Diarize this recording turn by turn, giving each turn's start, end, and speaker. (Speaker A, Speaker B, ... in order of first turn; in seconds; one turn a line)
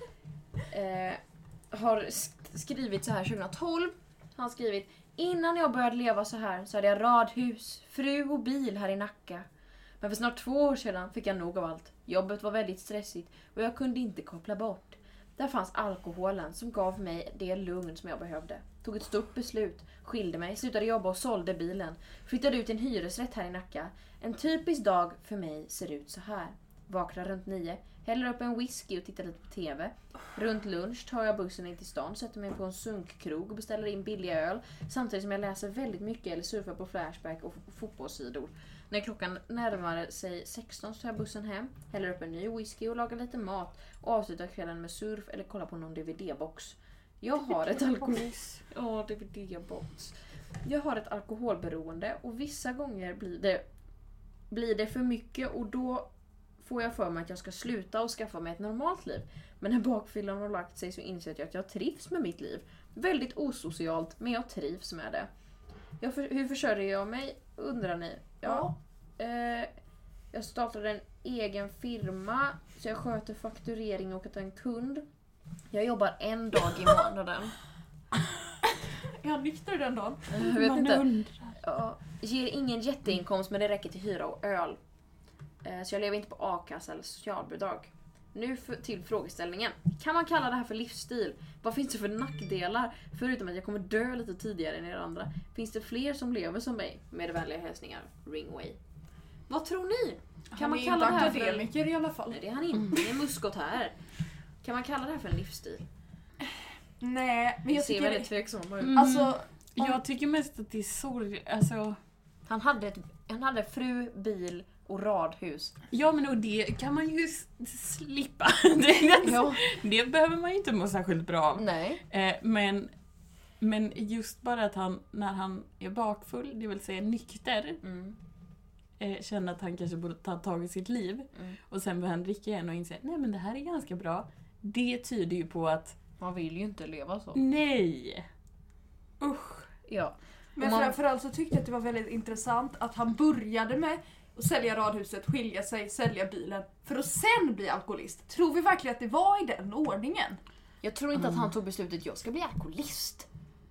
Speaker A: 0.7-1.2
Speaker A: 1.7-9.5
Speaker A: 10.0-53.6
Speaker B: 47.3-48.6
Speaker A: 54.5-65.3
Speaker A: 66.0-69.7
Speaker C: 68.5-68.7
Speaker A: 70.3-75.1
Speaker A: 75.7-77.5
Speaker C: 79.1-80.3
Speaker A: 80.3-81.1
Speaker B: 80.4-81.5
Speaker A: 81.6-84.8
Speaker A: 85.6-98.8
Speaker A: 99.5-101.7
Speaker C: 100.5-102.4
Speaker A: 102.2-104.0
Speaker A: 104.6-105.8
Speaker C: 107.0-108.3
Speaker A: 107.7-109.1
Speaker B: 108.8-112.0
Speaker C: 108.9-110.0
Speaker A: 112.5-115.7
Speaker B: 115.9-122.9
Speaker A: 119.2-119.6
Speaker A: 121.6-122.0
Speaker B: 123.6-127.8
Speaker A: 127.8-128.2
Speaker B: 129.0-136.0
Speaker A: 136.2-137.4
Speaker B: 137.3-138.3
Speaker B: 139.2-139.7
Speaker A: 139.9-141.0
Speaker C: 140.6-150.4
Speaker A: 150.8-153.3
Speaker B: 151.2-151.5